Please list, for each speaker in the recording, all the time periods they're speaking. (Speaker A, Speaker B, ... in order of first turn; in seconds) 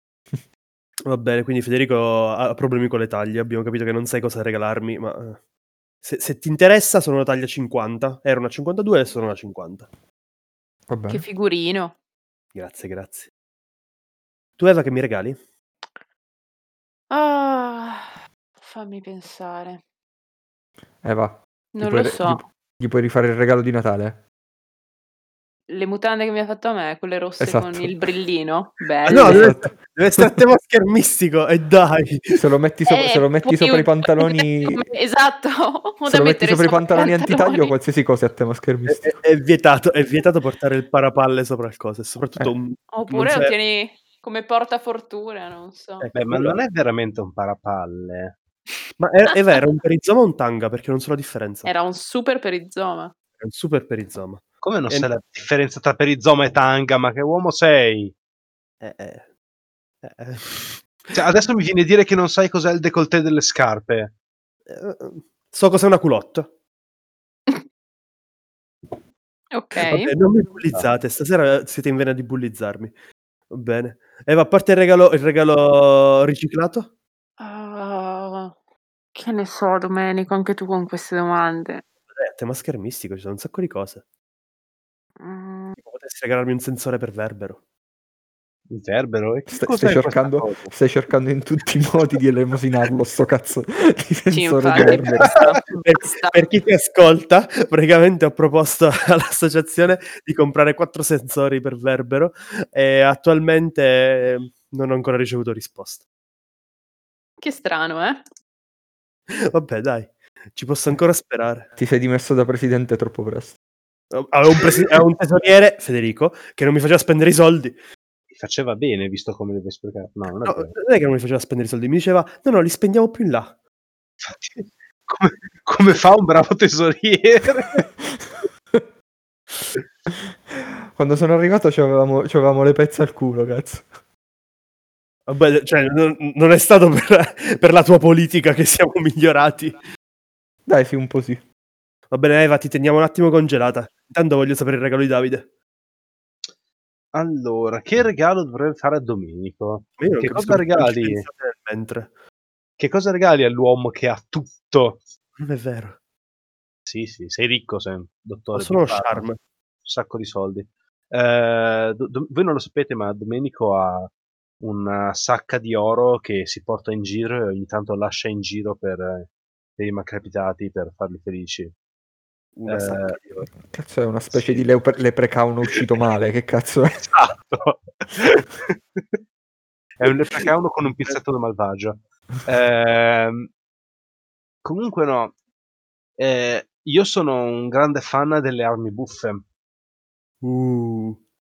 Speaker A: 1.1-5.4, 6.0-9.9, 12.6-13.3, 14.6-15.4, 29.1-32.4, 38.9-43.5, 46.0-46.6, 49.0-51.7, 53.4-55.1, 58.8-59.3, 60.0-60.8, 64.7-66.5, 69.8-72.9, 73.5-76.9, 82.1-84.0, 85.8-87.6, 94.9-106.0, 109.3-111.7, 114.1-117.8, 120.5-123.5, 135.3-139.8, 142.1-145.4, 150.0-152.1, 155.4-156.0, 158.5-159.4, 172.6-173.5, 190.4-191.2
Speaker B: 10.9-11.2, 21.0-24.2, 27.4-27.9, 29.2-30.3, 32.3-34.8, 36.1-39.2, 89.5-95.3, 111.8-113.6, 130.5-133.9, 140.7-141.4, 173.7-177.0
Speaker C: 11.1-11.9, 17.1-19.8, 21.8-22.4, 25.7-29.5, 32.9-37.8, 42.9-46.1, 51.6-53.1, 69.5-70.1, 77.4-78.5, 79.2-81.8, 85.2-85.8, 94.3-96.4, 107.4-108.2
Speaker D: 46.1-48.4, 54.6-58.1, 61.1-64.1, 88.7-90.7, 118.3-120.7, 124.2-127.9, 147.1-151.2, 152.8-155.0, 156.9-159.3, 159.8-171.7, 172.7-173.2, 177.0-179.2, 180.0-183.5, 184.6-185.3, 186.2-189.4